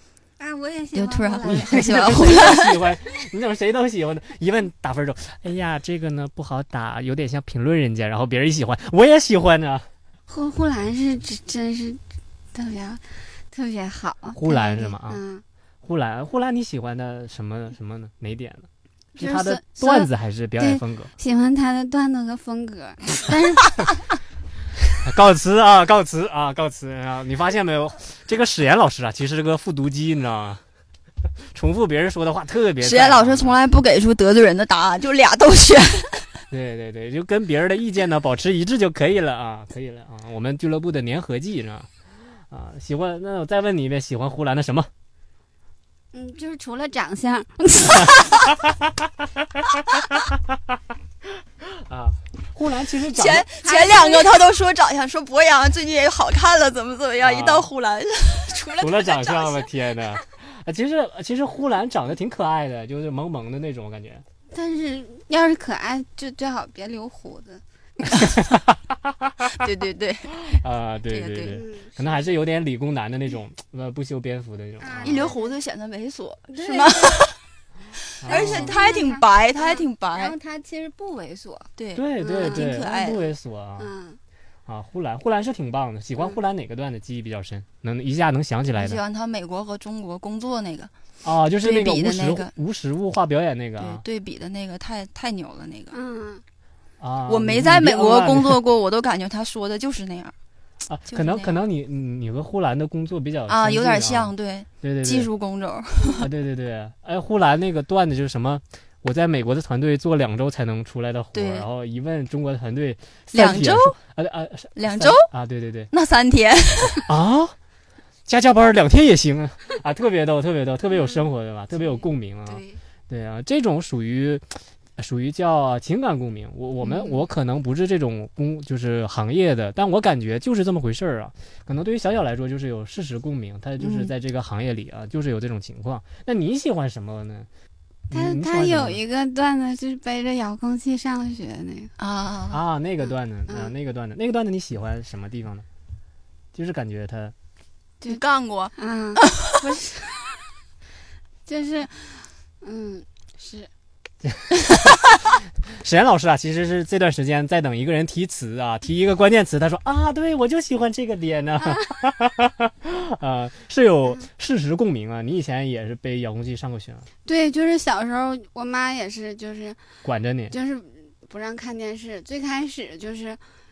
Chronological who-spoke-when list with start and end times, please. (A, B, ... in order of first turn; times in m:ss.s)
0:00.4-0:02.3 A
0:00.9-0:02.7 B
0:01.5-0:09.9 C
0:10.3-0:12.0 A
0:12.5-0:15.4 A
0:14.3-0:15.2 C
0:15.8-0:21.1 C
0:19.2-0:23.9 A
0:25.0-0:30.6 C
0:31.5-0:33.6 C
0:32.8-0:36.2 B
0:36.5-0:41.9 C
0:42.5-0:44.9 C
0:46.1-0:48.5 A
0:51.6-0:53.4 C
0:53.1-0:59.7 B
0:53.6-0:54.4 A
0:57.2-0:57.7 C
0:58.8-1:04.2 C
1:04.5-1:07.6 A
1:08.1-1:09.5 C
1:09.6-1:10.6 B
1:10.4-1:15.3 C
1:11.1-1:11.6 B
1:11.5-1:12.1 A
1:14.8-1:15.5 A
1:15.0-1:17.4 B
1:16.5-1:17.3 A
1:18.2-1:18.8 C
1:18.2-1:20.3 B
1:18.2-1:22.7 A
1:21.8-1:23.3 B
1:21.9-1:23.9 C
1:23.8-1:24.2 A
1:24.7-1:29.0 C
1:28.8-1:30.9 B
1:31.2-1:34.0 C
1:31.6-1:32.5 B
1:33.8-1:35.9 B
1:35.9-1:36.4 A
1:37.0-1:38.6 C
1:37.3-1:40.3 B
1:40.9-1:45.3 C
1:41.1-1:41.6 B
1:43.5-1:46.2 B
1:46.2-1:55.9 C
1:51.3-1:51.7 B
1:53.3-1:54.0 B
1:54.7-1:55.3 B
1:55.9-1:57.1 B
1:57.0-1:57.5 C
1:58.3-2:04.4 C
2:02.5-2:02.8 B
2:05.0-2:17.5 C
2:13.8-2:14.1 B
2:18.1-2:19.0 C
2:18.1-2:21.9 A
2:22.0-2:22.6 B
2:22.5-2:25.6 C
2:23.5-2:23.7 A
2:26.5-2:27.3 C
2:28.0-2:29.5 B
2:28.8-2:30.2 A
2:31.4-2:33.7 A
2:34.2-2:35.0 C
2:35.7-2:47.1 C
2:41.6-2:42.0 A
2:47.2-2:49.8 A
2:50.0-2:50.5 C
2:50.5-2:53.4 A